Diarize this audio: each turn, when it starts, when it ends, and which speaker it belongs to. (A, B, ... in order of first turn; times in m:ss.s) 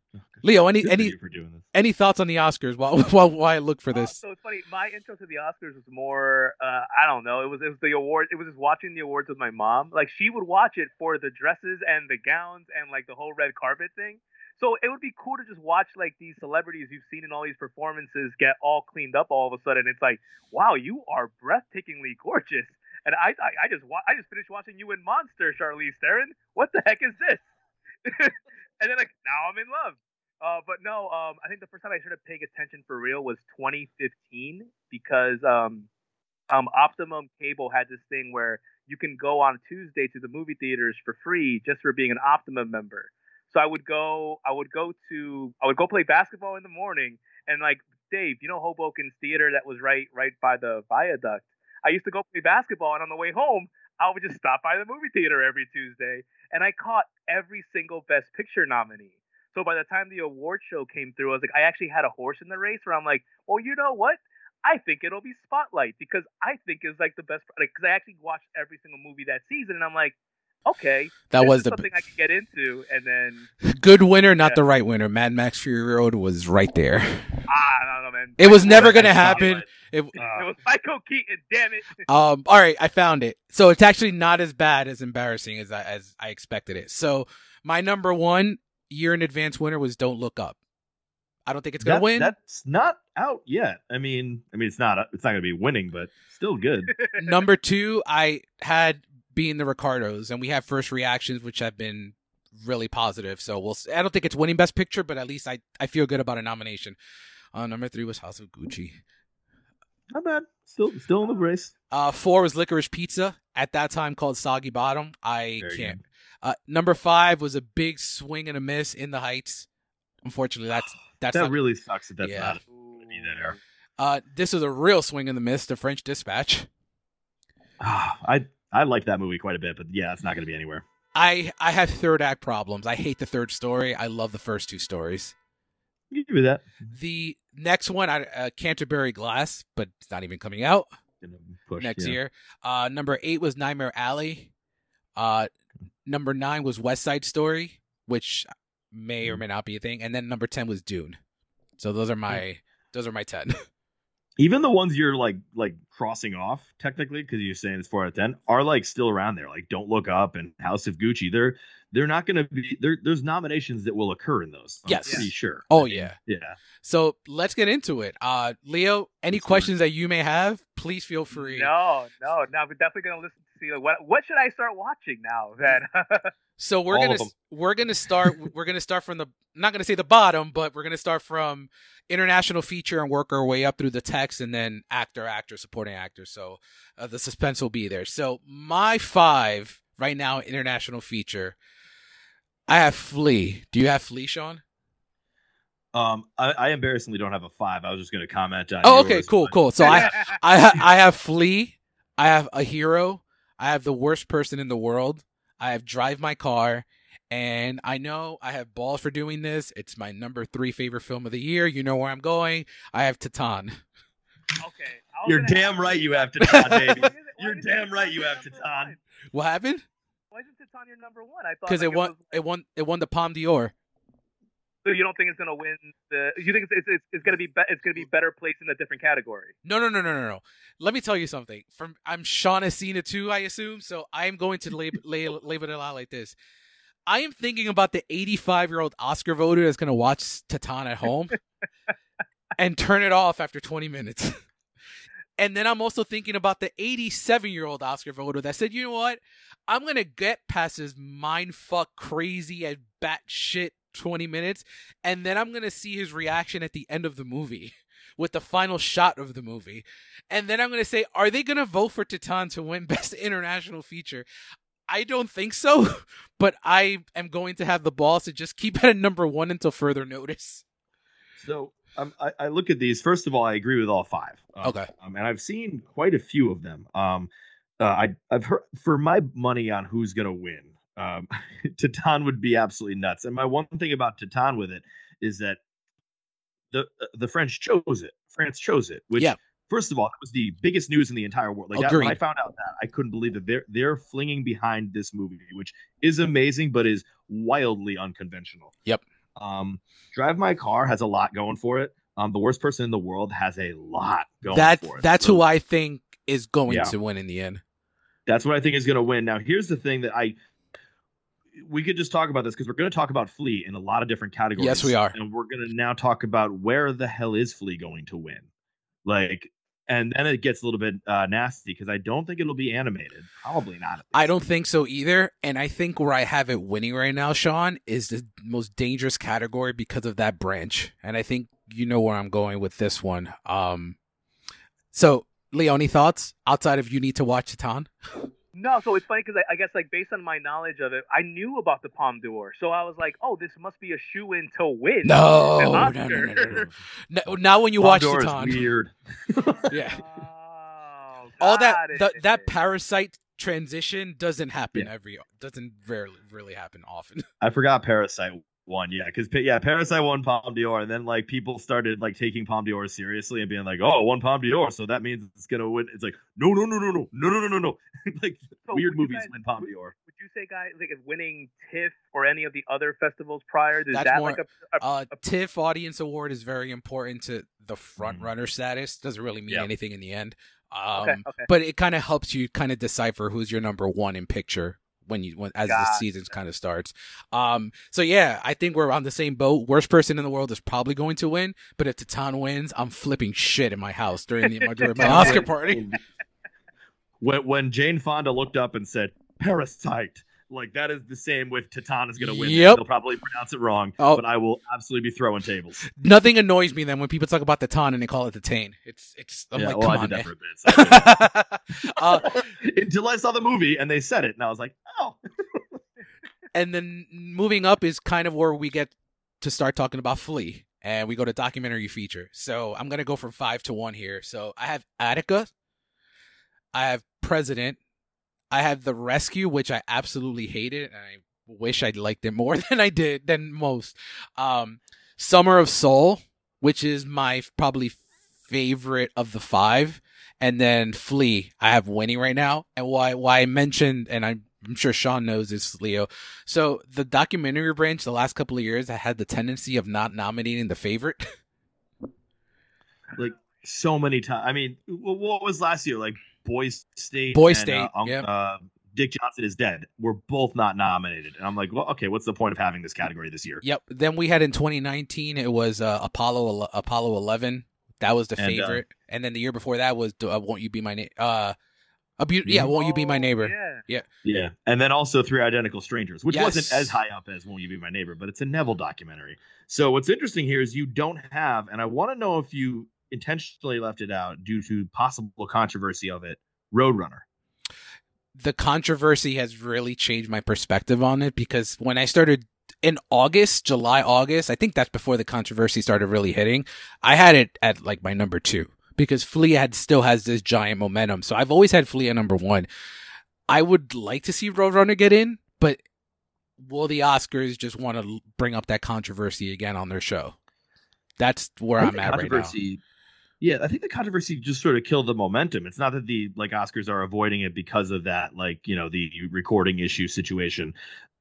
0:00.2-0:01.6 A
0:00.4-0:01.1 B
0:01.7-0:04.1 B
0:03.9-0:27.4 C
0:28.0-0:35.9 C
0:36.5-1:10.1 C
1:10.6-1:13.5 C
1:11.3-1:11.9 B
1:13.6-1:17.4 B
1:17.5-1:19.5 C
1:18.4-1:20.1 B
1:18.6-1:20.5 A
1:20.2-1:22.0 C
1:22.1-1:30.6 B
1:31.4-1:32.3 B
1:31.8-1:36.9 A
1:36.9-1:37.3 C
1:37.2-1:47.0 B
1:47.5-1:49.0 B
1:50.1-1:51.7 A
1:51.9-1:59.7 B
1:55.6-1:56.0 A
2:00.2-2:01.6 B
2:01.3-2:03.6 A
2:02.2-2:02.6 B
2:02.7-2:03.5 C
2:04.0-2:06.7 B
2:07.8-2:10.8 A
2:11.1-2:15.3 B
2:16.1-2:16.7 A
2:16.9-2:20.9 B
2:21.2-2:22.2 A
2:21.8-2:24.5 B
2:25.2-2:25.5 B
2:26.0-2:31.2 B
2:31.8-2:33.6 B
2:34.4-2:46.6 A
2:44.8-2:46.2 B
2:46.8-2:51.7 B
2:49.3-2:49.7 A
2:51.3-2:56.3 C
2:56.6-3:11.6 B
2:56.9-2:57.3 A
3:12.7-3:14.6 B
3:15.9-3:20.1 A
3:18.8-3:33.8 B
3:19.8-3:20.4 C
3:34.6-3:39.0 C
3:35.2-3:38.9 A
3:39.3-3:39.8 B
3:40.3-3:42.4 C
3:41.6-3:43.7 B
3:44.8-3:49.5 C
3:49.6-3:56.3 B
3:57.1-4:01.4 B
4:02.6-4:04.4 B
4:05.4-4:24.2 B
4:24.9-4:30.6 B
4:31.4-4:45.6 A
4:34.6-4:34.9 B
4:46.7-4:58.7 A
4:51.7-4:52.2 B
4:59.4-5:05.4 A
5:04.5-5:07.6 B
5:06.7-5:06.9 A
5:08.3-5:10.3 A
5:11.6-5:18.4 A
5:14.6-5:15.1 B
5:19.0-5:24.3 A
5:24.1-5:34.0 B
5:34.9-5:38.3 B
5:38.5-5:46.6 C
5:45.0-5:48.6 B
5:47.3-5:49.7 A
5:49.7-5:50.0 B
5:49.9-5:52.5 C
5:51.4-5:57.2 B
5:57.4-6:09.9 A
6:08.7-6:14.8 C
6:13.9-6:35.8 B
6:18.0-6:18.3 A
6:21.0-6:21.5 C
6:25.7-6:26.0 C
6:34.5-6:35.5 C
6:35.0-6:36.0 A
6:37.2-6:45.8 A
6:42.2-6:42.8 B
6:45.9-6:52.3 B
6:49.5-6:51.3 A
6:51.9-6:55.6 A
6:56.5-7:05.5 B
7:06.7-7:07.8 B
7:08.5-7:31.3 B
7:33.2-7:43.6 A
7:37.3-7:38.2 B
7:43.6-7:51.5 B
7:48.4-7:48.8 A
7:52.2-7:54.0 B
7:52.4-7:52.7 A
7:52.7-7:53.8 C
7:54.2-8:07.2 A
7:56.3-7:57.0 B
8:08.3-8:22.7 B
8:23.5-8:25.8 B
8:26.6-8:30.4 B
8:31.2-8:32.5 B
8:31.8-8:32.8 A
8:33.4-8:40.7 A